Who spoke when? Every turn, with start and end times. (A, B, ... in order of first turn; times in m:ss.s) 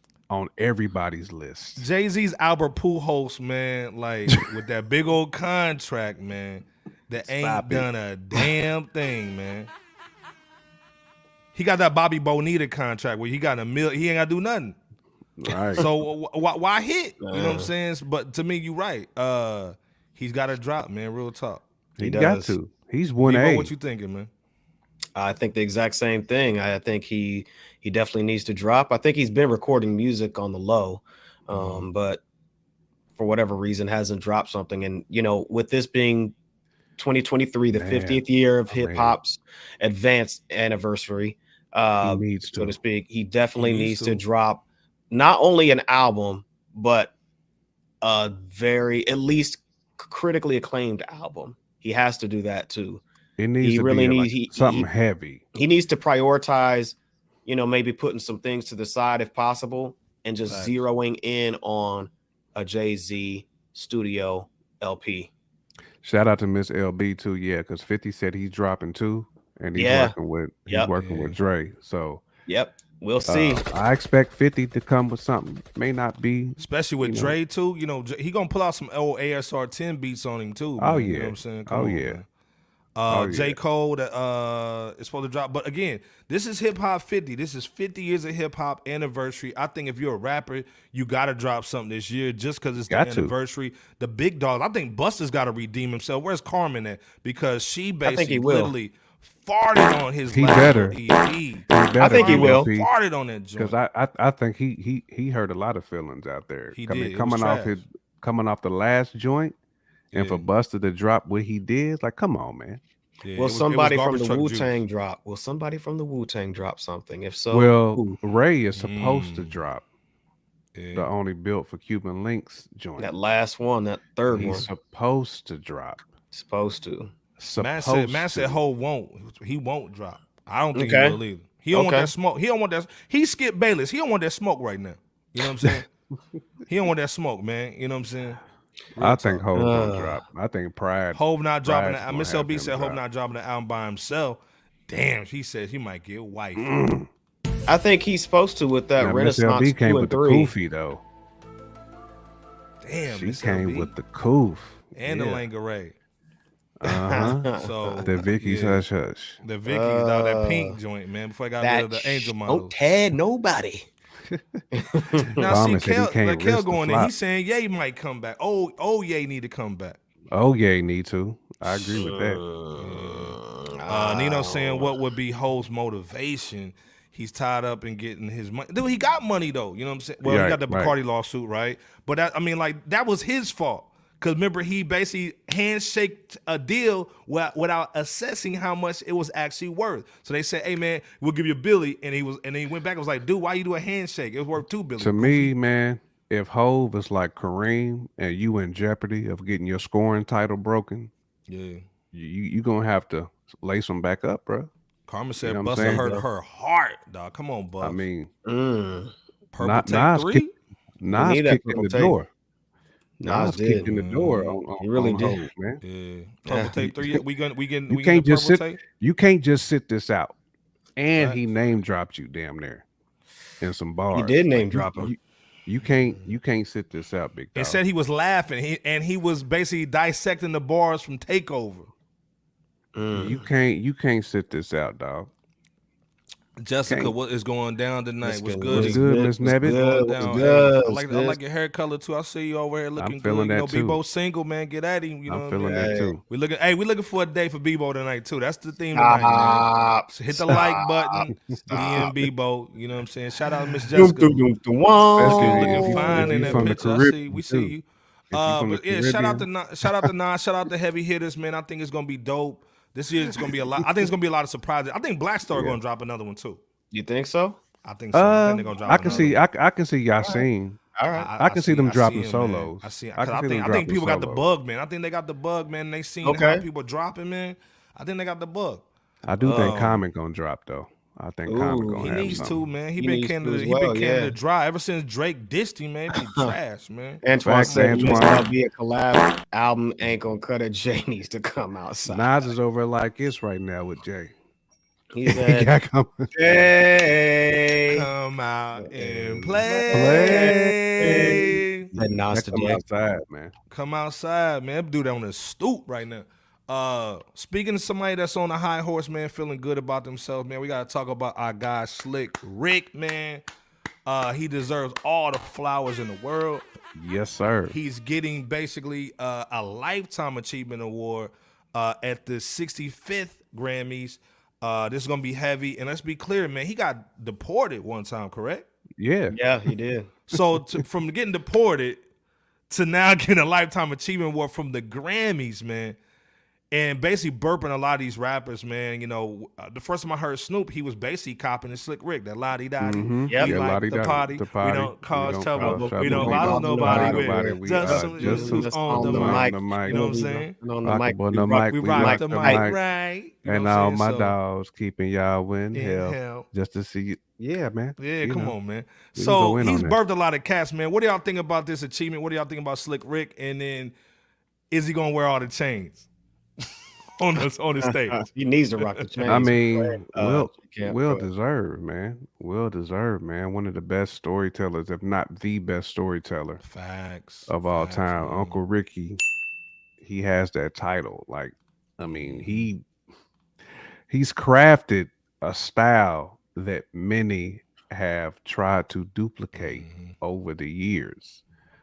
0:00.3-0:01.9 A
0:01.8-0:09.7 B
0:07.2-0:07.9 A
0:11.5-0:14.8 B
0:15.4-0:15.9 A
0:15.7-0:21.6 B
0:17.2-0:17.7 C
0:22.0-0:23.7 A
0:22.0-0:22.5 C
0:23.2-0:24.3 B
0:25.1-0:32.2 C
0:31.5-0:31.9 B
0:33.2-0:36.3 C
0:37.0-0:47.1 C
0:37.7-0:39.2 A
0:42.0-0:42.8 A
0:43.6-0:44.2 B
0:48.0-0:53.0 C
0:53.4-0:55.4 A
0:53.6-0:54.9 C
0:55.5-1:05.3 C
1:00.5-1:00.8 B
1:06.0-1:12.2 A
1:09.7-1:10.1 C
1:11.0-1:11.4 B
1:12.5-1:13.6 C
1:13.3-1:17.3 A
1:16.6-1:22.2 B
1:20.8-1:22.2 A
1:23.0-1:43.7 B
1:23.1-1:23.6 A
1:32.9-1:33.3 A
1:38.0-1:38.7 C
1:40.3-1:41.0 A
1:41.7-1:42.9 A
1:42.0-1:42.7 C
1:43.6-1:49.6 A
1:46.7-1:47.8 B
1:50.1-1:50.5 B
1:50.1-1:52.8 A
1:53.2-1:54.8 B
1:53.4-1:58.1 C
1:57.5-1:59.8 A
1:58.8-1:59.6 B
2:00.7-2:01.1 B
2:00.9-2:03.1 A
2:03.0-2:04.7 C
2:04.3-2:06.0 A
2:06.3-2:07.1 C
2:07.4-2:08.6 A
2:07.6-2:15.8 B
2:10.7-2:11.2 C
2:11.7-2:12.1 C
2:16.6-2:18.4 B
2:19.0-2:19.5 B
2:19.0-2:23.0 A
2:19.5-2:20.2 C
2:21.1-2:26.8 B
2:26.6-2:27.1 A
2:27.7-2:30.5 C
2:29.0-2:31.0 A
2:32.8-2:33.9 B
2:33.1-2:35.4 A
2:34.9-2:36.0 B
2:36.8-2:37.5 A
2:36.8-2:38.1 C
2:37.5-2:38.8 B
2:38.0-2:39.4 A
2:39.4-2:42.7 B
2:39.6-2:40.8 C
2:41.6-2:43.9 C
2:44.7-2:45.4 C
2:45.3-2:47.1 A
2:45.4-2:50.0 B
2:50.3-2:52.4 A
2:51.9-2:54.9 C
2:52.8-2:53.4 B
2:53.9-3:15.5 B
3:00.2-3:00.9 A
3:15.0-3:21.1 A
3:21.5-3:21.8 B
3:22.1-3:24.7 A
3:25.1-3:28.0 B
3:25.4-3:26.1 A
3:25.8-3:26.2 C
3:27.8-3:28.3 A
3:28.4-3:29.1 C
3:29.5-3:30.5 B
3:29.6-3:30.4 A
3:31.0-3:32.3 A
3:31.1-3:32.1 C
3:33.2-3:35.4 C
3:33.2-3:35.8 A
3:33.8-3:34.4 B
3:35.8-3:38.8 B
3:36.8-3:37.2 A
3:37.9-3:40.4 A
3:41.0-3:42.8 A
3:43.6-3:47.8 A
3:44.1-3:45.1 C
3:45.9-3:46.3 B
3:47.5-3:51.9 B
3:52.9-3:53.4 C
3:53.1-3:55.3 A
3:56.6-4:14.4 B
3:56.9-3:57.1 A
3:58.2-4:01.4 C
3:58.7-4:00.3 A
4:03.0-4:04.0 A
4:05.3-4:06.2 A
4:05.6-4:06.1 C
4:08.9-4:12.1 C
4:11.7-4:12.2 A
4:13.9-4:16.9 C
4:15.2-4:17.7 A
4:15.2-4:26.6 B
4:18.3-4:20.1 A
4:25.5-4:25.8 A
4:26.9-4:27.6 C
4:27.8-4:29.4 B
4:28.1-4:30.8 A
4:29.0-4:29.3 C
4:31.0-4:31.3 C
4:31.1-4:38.8 B
4:31.4-4:34.4 A
4:36.2-4:36.6 C
4:39.2-4:42.6 A
4:39.4-4:39.8 C
4:39.4-4:40.0 B
4:41.5-4:42.4 C
4:42.0-4:48.4 B
4:43.0-4:44.3 C
4:46.1-4:46.5 C
4:47.2-4:52.4 C
4:47.4-4:48.5 A
4:52.1-4:54.3 A
4:55.1-4:55.7 C
4:55.2-4:56.6 A
4:56.3-4:58.1 C
4:57.9-5:01.9 B
4:58.8-5:02.8 C
4:59.9-5:01.4 A
5:02.0-5:03.5 A
5:03.7-5:13.4 B
5:14.0-5:16.7 B
5:16.9-5:17.8 A
5:17.7-5:28.7 B
5:29.0-5:29.4 A
5:29.3-5:30.1 C
5:30.3-5:32.0 B
5:32.7-5:36.0 B
5:36.7-5:50.6 B
5:42.8-5:50.0 A
5:43.3-5:43.5 C
5:45.5-5:52.6 C
5:50.8-5:52.8 A
5:51.7-5:54.3 B
5:53.4-5:58.5 A
5:55.7-5:56.5 B
5:58.0-6:03.9 B
5:59.2-6:00.0 A
6:04.7-6:06.1 B
6:07.2-6:08.2 B
6:07.8-6:11.2 C
6:09.2-6:09.4 B
6:09.2-6:16.6 A
6:16.6-6:18.6 B
6:17.5-6:19.2 A
6:20.0-6:22.8 A
6:22.0-6:22.7 B
6:24.1-6:31.4 A
6:29.5-6:30.1 B